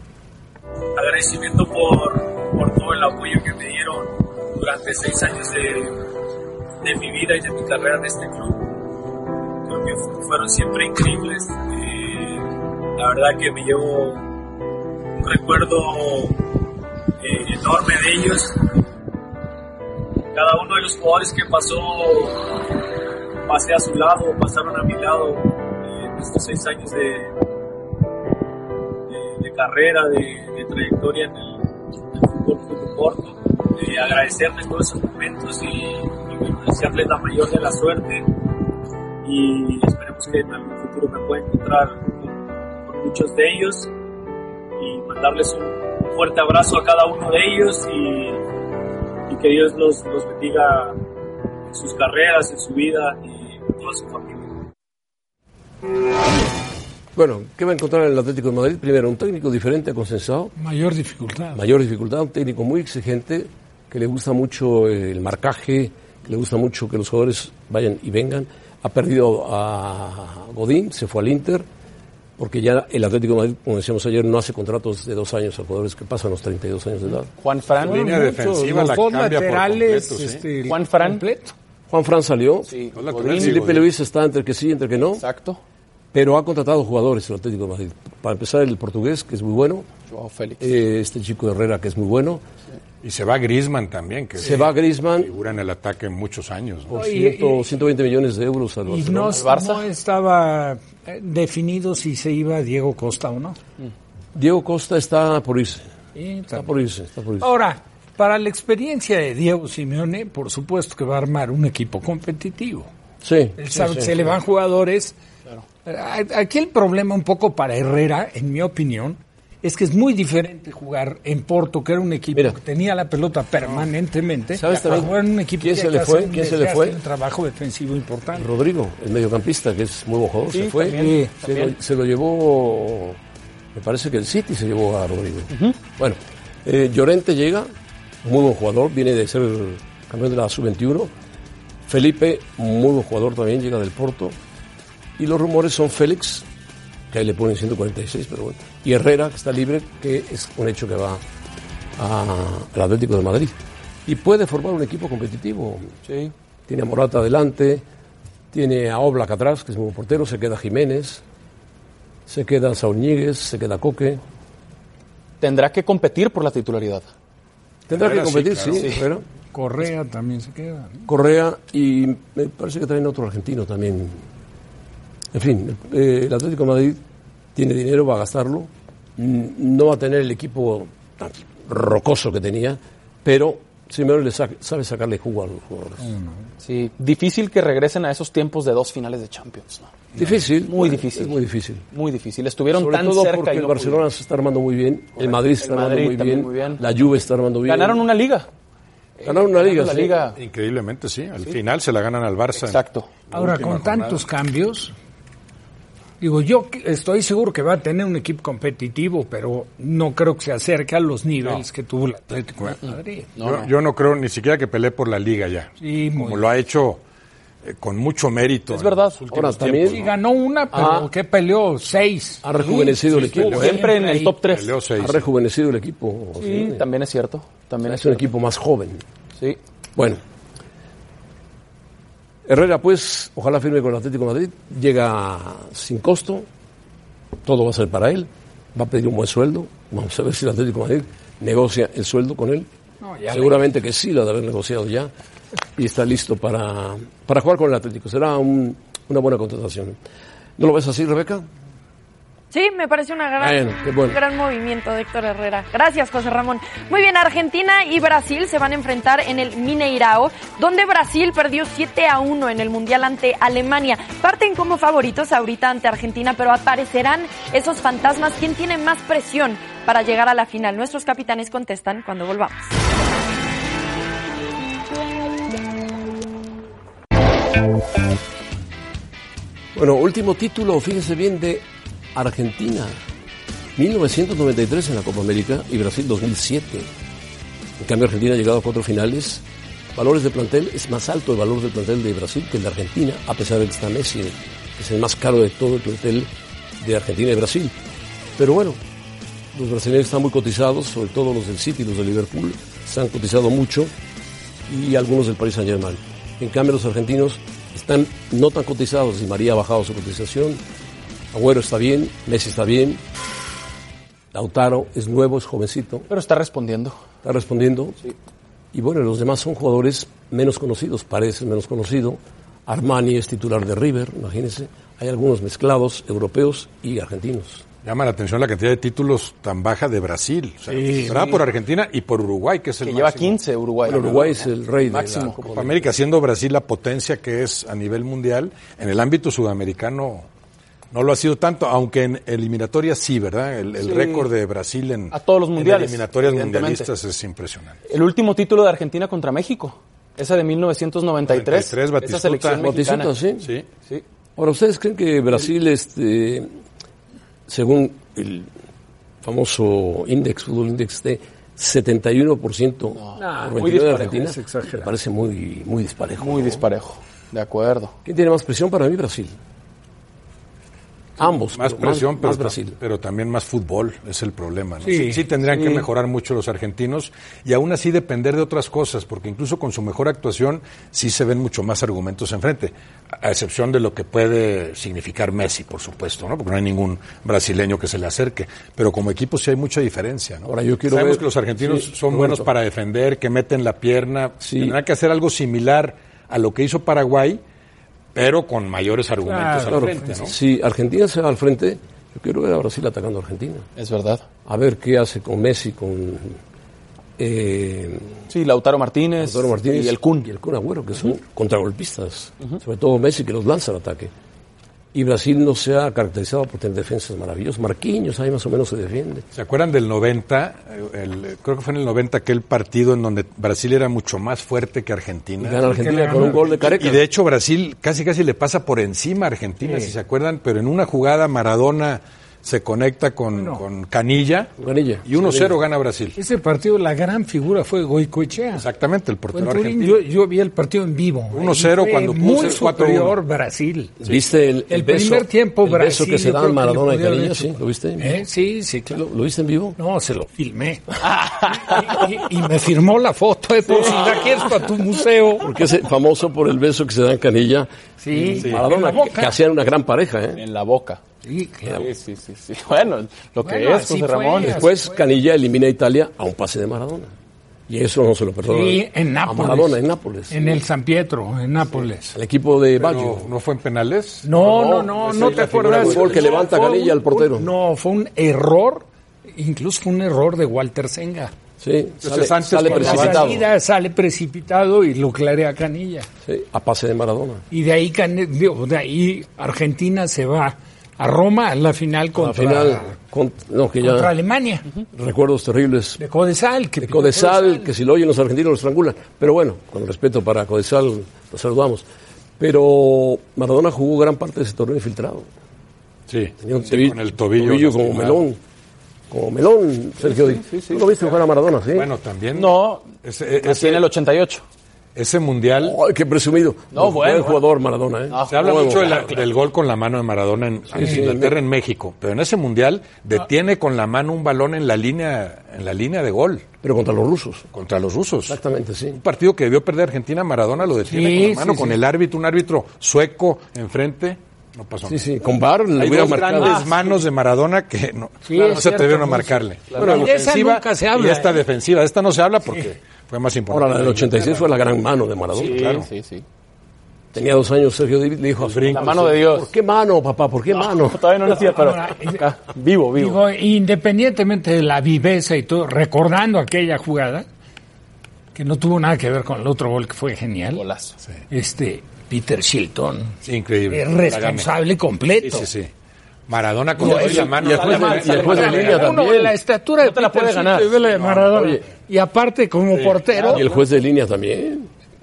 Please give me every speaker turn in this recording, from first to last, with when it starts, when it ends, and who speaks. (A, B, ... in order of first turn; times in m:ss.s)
0:00.9-0:06.0 A
0:06.8-0:08.8 A
0:09.6-0:14.2 A
0:15.1-0:16.5 A
0:17.2-0:18.7 A
0:20.3-0:22.9 A
0:23.4-0:27.4 A
0:29.1-0:38.3 A
0:39.2-0:43.9 A
0:44.8-0:48.4 A
0:49.3-0:51.0 A
0:51.7-0:54.6 A
0:57.1-1:00.5 B
1:00.6-1:01.6 C
1:01.5-1:11.6 B
1:12.4-1:17.3 B
1:17.4-1:18.0 D
1:17.8-1:20.4 E
1:17.8-1:21.5 C
1:20.7-1:21.2 D
1:21.9-1:22.8 B
1:22.7-1:23.6 D
1:22.9-1:23.9 E
1:23.3-1:25.2 B
1:25.1-1:25.6 D
1:26.1-1:29.9 B
1:30.1-1:30.6 D
1:30.6-1:32.4 B
1:33.0-1:36.9 E
1:34.4-1:35.3 B
1:36.9-1:39.4 B
1:36.9-1:37.7 C
1:38.9-1:43.6 C
1:39.3-1:39.9 D
1:44.3-1:45.9 B
1:46.1-1:46.7 C
1:46.5-1:47.5 B
1:47.4-1:52.9 C
1:53.2-1:54.1 B
1:53.6-1:55.1 C
1:55.8-2:08.5 C
2:04.6-2:07.0 B
2:08.4-2:13.2 B
2:10.5-2:11.7 D
2:10.9-2:11.3 C
2:13.7-2:17.7 B
2:15.5-2:15.8 D
2:18.2-2:21.1 B
2:21.9-2:24.4 B
2:25.2-2:26.4 B
2:27.1-2:31.2 B
2:32.0-2:35.9 B
2:36.1-2:36.3 D
2:36.7-2:37.8 B
2:38.5-2:41.2 B
2:42.3-2:44.2 B
2:45.4-2:47.1 D
2:47.9-2:49.2 B
2:47.9-2:48.9 E
2:48.7-2:49.0 D
2:49.5-2:51.0 C
2:51.1-2:54.2 B
2:55.3-2:57.0 B
2:57.6-3:06.1 B
3:06.0-3:06.4 C
3:06.6-3:09.9 D
3:10.2-3:11.8 B
3:10.7-3:11.4 D
3:11.9-3:14.0 D
3:12.7-3:18.0 B
3:15.2-3:16.8 D
3:17.6-3:18.5 D
3:19.2-3:20.4 D
3:19.2-3:20.2 B
3:20.4-3:24.2 E
3:22.6-3:23.1 D
3:23.3-3:24.9 C
3:26.2-3:33.3 C
3:33.4-3:33.7 D
3:33.4-3:37.0 E
3:35.8-3:36.4 C
3:37.6-3:40.1 E
3:38.7-3:39.2 D
3:39.3-3:40.0 B
3:39.9-3:44.4 C
3:40.7-3:41.1 B
3:42.4-3:43.8 B
3:43.4-3:44.7 D
3:44.4-3:45.2 E
3:45.0-3:46.9 B
3:46.4-3:48.2 D
3:47.8-3:49.0 B
3:50.0-3:50.2 B
3:52.4-3:56.5 B
3:57.4-4:02.7 B
4:03.0-4:03.7 C
4:03.3-4:05.1 B
4:05.8-4:10.0 B
4:10.6-4:11.4 B
4:12.5-4:32.6 F
4:13.4-4:14.2 B
4:39.7-4:41.6 B
4:42.1-4:43.0 B
4:43.8-4:46.9 B
4:47.8-4:57.7 B
4:58.4-4:58.8 B
4:59.5-5:03.9 B
5:04.7-5:10.6 B
5:11.3-5:13.0 B
5:14.3-5:16.1 B
5:16.1-5:17.0 D
5:17.2-5:18.0 B
5:18.7-5:27.6 B
5:27.8-5:33.4 E
5:32.8-5:35.4 D
5:33.9-5:35.9 B
5:35.4-5:40.3 E
5:40.9-5:47.8 E
5:43.8-5:44.3 D
5:45.1-5:46.9 D
5:47.9-5:53.1 D
5:51.3-5:52.6 E
5:52.6-5:53.5 B
5:53.4-5:53.6 E
5:54.4-5:56.5 B
5:57.5-5:58.5 B
5:59.2-6:06.6 B
6:02.9-6:04.2 D
6:03.2-6:04.9 C
6:06.2-6:07.9 D
6:08.0-6:09.3 B
6:11.2-6:12.8 B
6:11.5-6:37.4 E
6:14.8-6:15.2 C
6:15.5-6:15.8 D
6:30.5-6:32.5 B
6:34.4-6:34.8 B
6:38.1-6:40.3 E
6:39.2-6:40.3 C
6:39.7-6:43.6 B
6:43.8-6:44.2 D
6:44.4-6:46.4 B
6:47.2-6:48.2 B
6:48.3-6:50.3 D
6:49.2-6:54.1 B
6:54.9-6:59.2 B
6:59.4-7:05.6 E
7:05.4-7:07.0 B
7:05.6-7:06.6 C
7:06.2-7:14.5 E
7:09.6-7:09.9 C
7:13.3-7:13.6 C
7:14.6-7:15.6 B
7:15.0-7:16.2 E
7:16.2-7:18.6 C
7:18.6-7:20.0 E
7:19.3-7:23.9 C
7:21.3-7:23.2 E
7:24.0-7:28.2 B
7:24.7-7:29.0 C
7:28.9-7:29.8 B
7:29.8-7:35.5 C
7:35.4-7:40.4 B
7:38.0-7:39.4 C
7:40.4-7:41.0 D
7:41.2-7:41.9 C
7:41.7-7:44.6 D
7:43.4-7:45.0 C
7:44.4-7:47.1 B
7:47.7-7:50.6 B
7:48.4-7:49.8 C
7:50.3-7:52.1 C
7:52.1-7:53.3 B
7:52.8-7:56.4 E
7:54.2-8:01.3 C
7:55.4-7:57.5 B
8:01.6-8:03.4 B
8:02.0-8:03.4 E
8:02.6-8:06.1 C
8:06.2-8:07.4 B
8:07.5-8:13.0 C
8:12.2-8:14.1 B
8:13.8-8:14.6 C
8:14.9-8:16.0 B
8:16.0-8:17.7 C
8:16.8-8:21.8 B
8:22.4-8:25.3 B
8:26.1-8:28.2 E
8:26.4-8:28.4 B
8:29.1-8:31.9 B
8:30.0-8:31.1 D
8:31.7-8:33.9 E
8:32.3-8:34.4 D
8:34.9-8:35.8 E
8:35.6-8:39.1 B
8:36.7-8:37.4 D
8:38.1-8:39.2 D
8:38.3-8:46.5 E
8:40.7-8:41.4 B
8:46.6-8:47.4 B
8:47.5-8:48.4 E
8:48.3-8:49.0 B
8:49.0-8:55.0 E
8:50.9-8:51.8 C
8:54.9-8:56.6 B
8:55.8-9:04.6 E
8:58.2-9:01.4 C
8:59.8-9:00.1 B
9:03.5-9:05.6 B
9:05.4-9:06.2 D
9:05.4-9:05.9 E
9:07.1-9:11.1 B
9:08.4-9:09.2 E
9:08.7-9:09.5 D
9:10.5-9:13.2 D
9:11.4-9:12.2 C
9:13.0-9:17.2 C
9:18.4-9:20.6 C
9:20.6-9:21.0 D
9:21.3-9:23.2 C
9:23.2-9:24.5 E
9:23.7-9:25.5 C
9:25.2-9:25.7 E
9:26.3-9:28.8 E
9:26.8-9:28.9 D
9:26.8-9:29.4 B
9:26.8-9:27.3 C
9:28.0-9:33.4 C
9:29.8-9:30.8 D
9:31.2-9:31.6 B
9:33.1-9:33.6 D
9:33.3-9:34.7 B